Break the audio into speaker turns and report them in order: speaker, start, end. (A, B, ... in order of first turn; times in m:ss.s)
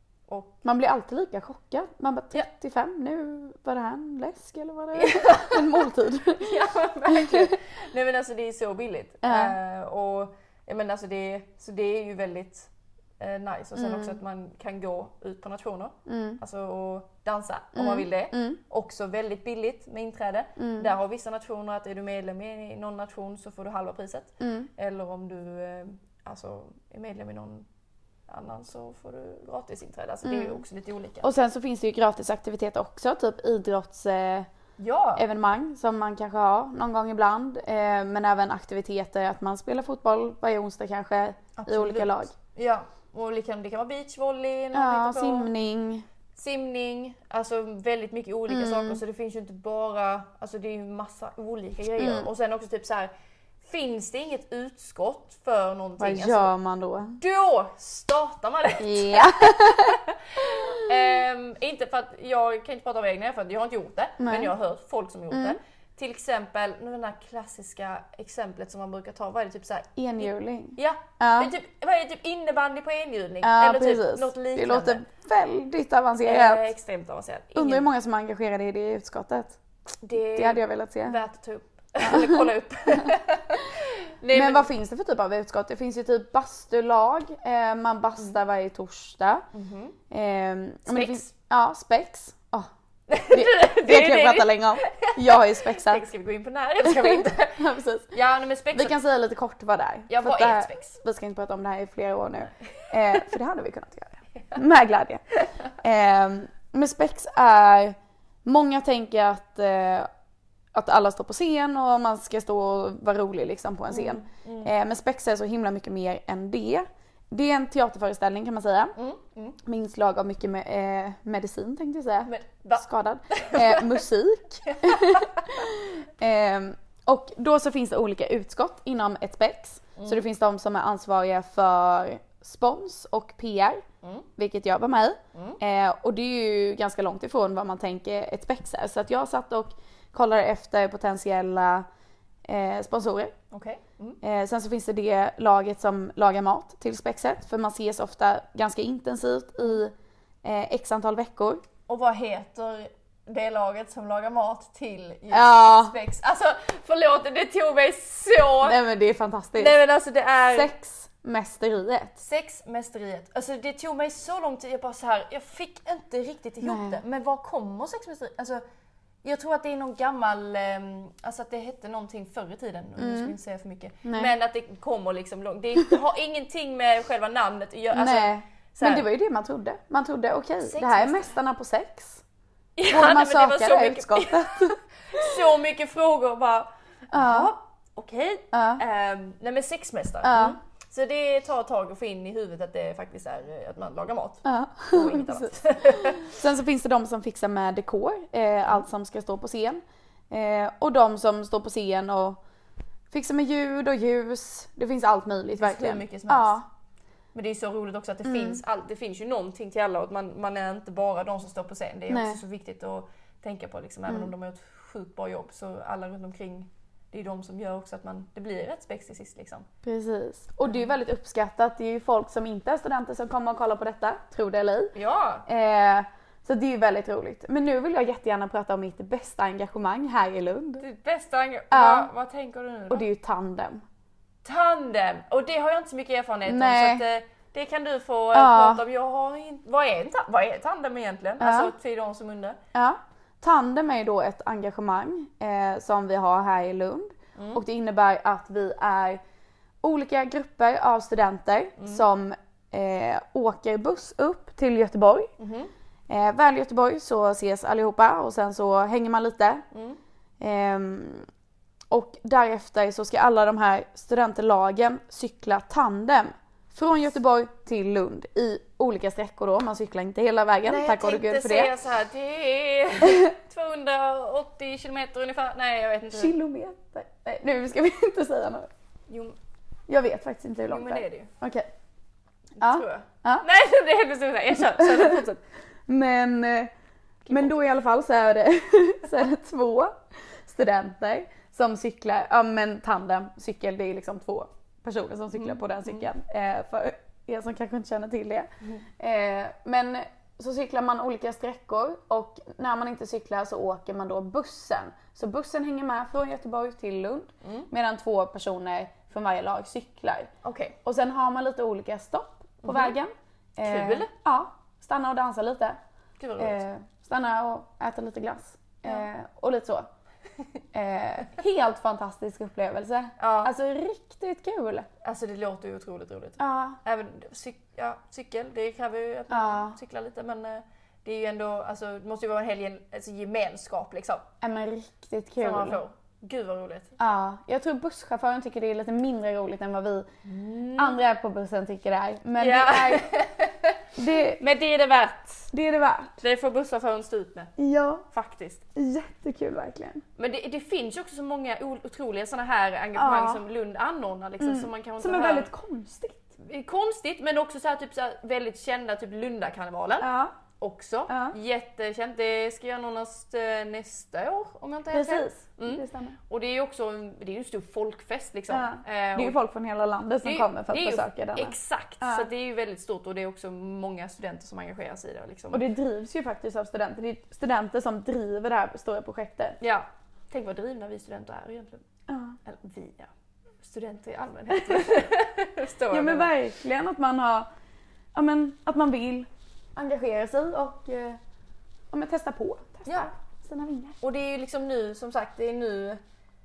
0:00.3-0:00.6 A
0:00.6-0:06.5 B
0:04.9-0:27.6 A
0:07.1-0:07.5 B
0:09.2-0:09.5 B
0:13.8-0:14.1 B
0:16.0-0:16.4 B
0:17.7-0:18.6 B
0:20.6-0:20.9 B
0:24.4-0:24.7 B
0:28.3-0:31.3 A
0:30.2-0:30.6 B
0:31.2-0:34.5 B
0:34.8-0:35.2 A
0:35.2-0:42.3 B
0:41.6-0:45.5 A
0:44.7-0:46.0 B
0:46.3-0:53.1 A
0:48.5-0:49.0 B
0:52.0-0:52.3 B
0:53.6-0:56.5 A
0:56.0-0:57.2 B
0:57.2-1:15.0 A
0:58.8-1:00.0 B
1:04.2-1:04.5 B
1:05.3-1:05.6 B
1:10.0-1:11.5 B
1:13.4-1:16.7 B
1:16.2-1:17.9 A
1:17.5-1:19.6 B
1:20.0-1:24.7 A
1:20.3-1:21.2 B
1:22.0-1:22.4 B
1:24.3-1:29.4 B
1:29.5-1:30.0 A
1:30.1-1:32.7 B
1:30.9-1:31.3 A
1:33.1-1:39.0 A
1:33.3-1:36.0 B
1:36.8-1:38.1 B
1:38.7-1:50.1 B
1:40.1-1:41.0 A
1:50.7-1:58.9 B
1:53.9-1:54.7 A
1:59.0-1:59.6 A
1:59.6-2:13.8 B
2:02.2-2:04.1 A
2:04.6-2:05.7 A
2:10.0-2:10.2 A
2:14.4-2:21.8 B
2:15.3-2:15.6 A
2:22.4-2:23.3 B
2:23.5-2:24.2 A
2:24.2-2:31.6 B
2:31.9-2:38.8 A
2:35.3-2:35.9 B
2:38.6-2:39.8 B
2:39.6-2:40.7 A
2:40.5-2:42.2 B
2:42.2-2:48.6 A
2:46.6-2:47.0 B
2:49.2-2:59.0 A
2:53.0-2:53.3 B
2:54.0-2:54.3 B
2:57.9-3:02.2 B
3:00.6-3:01.4 A
3:02.8-3:16.4 A
3:02.9-3:05.3 B
3:07.1-3:07.5 B
3:08.5-3:08.8 B
3:10.2-3:10.6 B
3:14.4-3:22.4 B
3:23.1-3:26.7 B
3:25.5-3:26.6 A
3:27.3-3:39.7 A
3:28.2-3:28.6 B
3:32.1-3:32.4 B
3:39.8-3:44.9 B
3:44.9-3:45.4 A
3:45.4-3:50.8 B
3:50.8-3:53.0 A
3:51.7-3:52.1 B
3:52.9-3:53.8 B
3:54.4-4:02.6 A
3:56.5-3:57.0 B
3:58.3-3:58.8 B
4:01.4-4:01.7 B
4:02.7-4:09.2 B
4:07.4-4:07.6 A
4:09.8-4:15.3 B
4:11.8-4:12.0 A
4:15.4-4:15.7 A
4:16.1-4:19.6 B
4:19.7-4:20.0 A
4:20.4-4:21.3 B
4:21.9-4:31.7 B
4:30.6-4:36.3 A
4:36.1-4:38.7 B
4:39.1-4:39.4 A
4:39.9-4:41.7 B
4:40.7-4:41.3 A
4:42.6-4:45.4 A
4:42.6-4:43.4 B
4:44.8-4:45.2 B
4:45.9-4:46.7 B
4:47.2-4:47.6 A
4:47.3-5:10.3 B
4:55.3-4:56.0 A
5:07.4-5:07.7 A
5:10.4-5:10.8 A
5:10.8-5:15.8 B
5:12.6-5:13.0 A
5:13.6-5:14.1 A
5:16.2-5:16.6 A
5:16.4-5:19.9 B
5:20.7-5:24.9 B
5:23.2-5:23.5 A
5:25.0-5:34.3 A
5:26.4-5:26.8 B
5:29.3-5:29.8 B
5:34.4-5:35.8 B
5:35.4-5:36.9 A
5:37.0-5:40.1 B
5:40.2-5:41.0 A
5:40.7-5:43.1 B
5:42.4-5:43.8 A
5:44.0-5:44.4 B
5:44.4-5:45.5 A
5:45.5-5:46.1 B
5:46.2-5:47.5 A
5:47.6-5:48.0 B
5:48.1-5:48.6 A
5:48.7-5:50.0 B
5:50.2-5:55.5 A
5:53.0-5:53.4 B
5:54.4-5:56.3 B
5:56.4-6:09.4 A
6:00.0-6:00.4 B
6:01.1-6:01.3 B
6:04.9-6:06.2 B
6:08.5-6:12.3 B
6:10.2-6:15.6 A
6:15.5-6:19.6 B
6:19.6-6:21.8 A
6:22.1-6:22.4 B
6:22.4-6:26.3 A
6:24.7-6:25.0 B
6:25.9-6:27.5 B
6:28.1-6:31.2 B
6:31.9-6:34.0 B
6:32.8-6:33.1 A
6:34.0-6:36.0 A